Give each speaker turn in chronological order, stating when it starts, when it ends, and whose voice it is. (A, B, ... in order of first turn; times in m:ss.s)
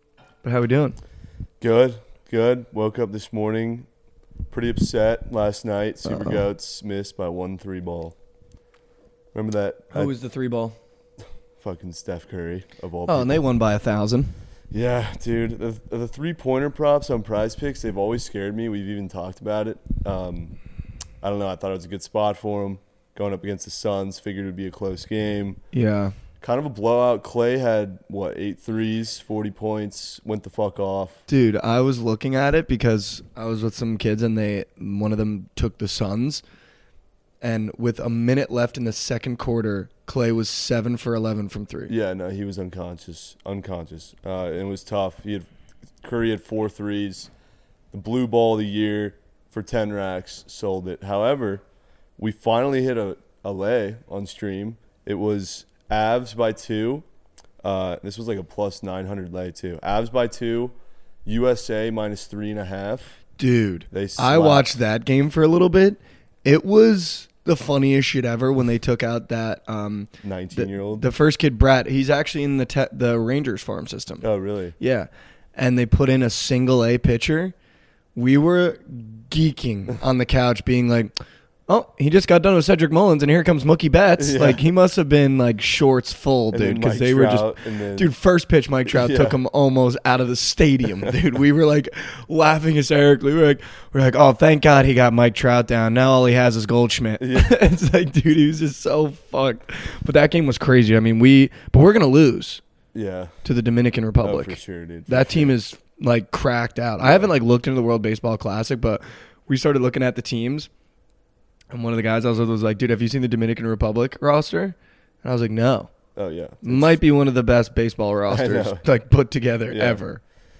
0:00.4-0:01.0 A
0:01.6-0:03.9 B
0:04.5-0:08.2 B
0:06.0-0:06.4 A
0:09.3-0:10.1 B
0:09.9-0:10.8 A
0:11.6-0:13.4 B
0:13.1-0:14.3 A
0:14.7-0:20.5 B
0:21.2-0:25.6 B
0:25.7-0:26.1 A
0:26.4-0:31.2 B
0:31.3-0:36.4 A
0:37.4-0:41.9 A
0:41.9-0:45.4 B
0:46.0-0:47.3 B
0:47.9-0:51.6 B
0:52.2-0:57.0 B
0:57.6-1:00.7 B
1:01.2-1:03.2 B
1:03.4-1:14.2 A
1:03.9-1:04.8 B
1:10.2-1:11.0 B
1:14.2-1:14.7 B
1:14.8-1:17.5 A
1:18.1-1:21.1 A
1:21.7-1:42.6 A
1:24.2-1:24.7 B
1:26.5-1:28.1 B
1:28.9-1:29.4 B
1:37.2-1:37.5 B
1:42.9-1:43.3 B
1:43.4-1:50.7 A
1:44.2-1:45.5 B
1:47.0-1:47.3 B
1:51.7-1:55.9 A
1:56.1-1:57.0 B
1:56.6-2:00.2 A
1:58.3-1:58.8 B
1:59.7-2:00.0 B